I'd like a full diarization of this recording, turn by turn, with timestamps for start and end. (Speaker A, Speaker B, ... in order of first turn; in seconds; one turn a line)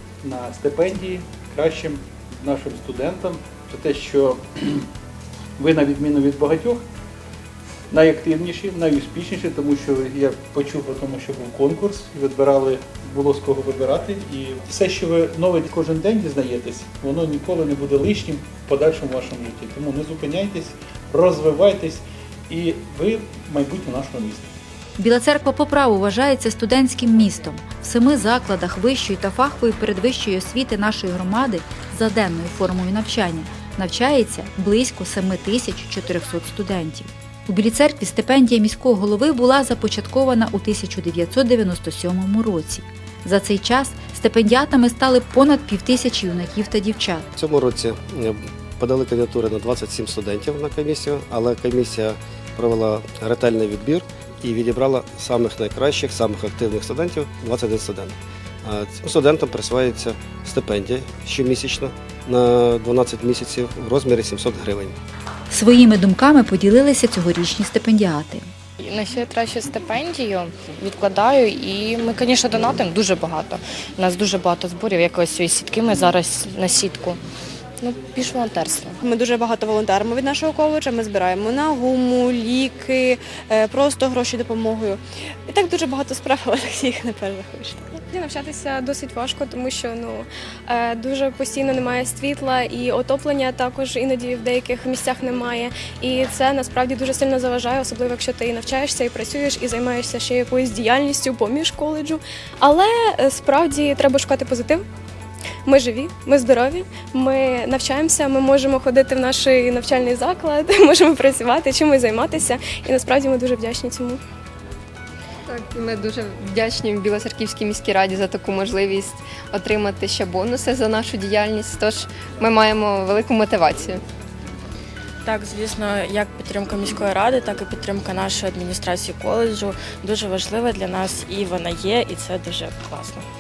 Speaker A: 0.2-4.9
Speaker A: 5.6-6.8
Speaker A: 7.9-24.5
Speaker B: 25.0-47.3
Speaker C: 47.4-65.0
Speaker B: 65.5-68.5
Speaker D: 68.8-77.2
Speaker D: 77.8-79.0
Speaker E: 79.1-85.0
Speaker E: 85.5-87.8
Speaker F: 88.1-104.8
Speaker F: 105.7-114.2
Speaker G: 115.5-124.0
Speaker H: 125.2-133.2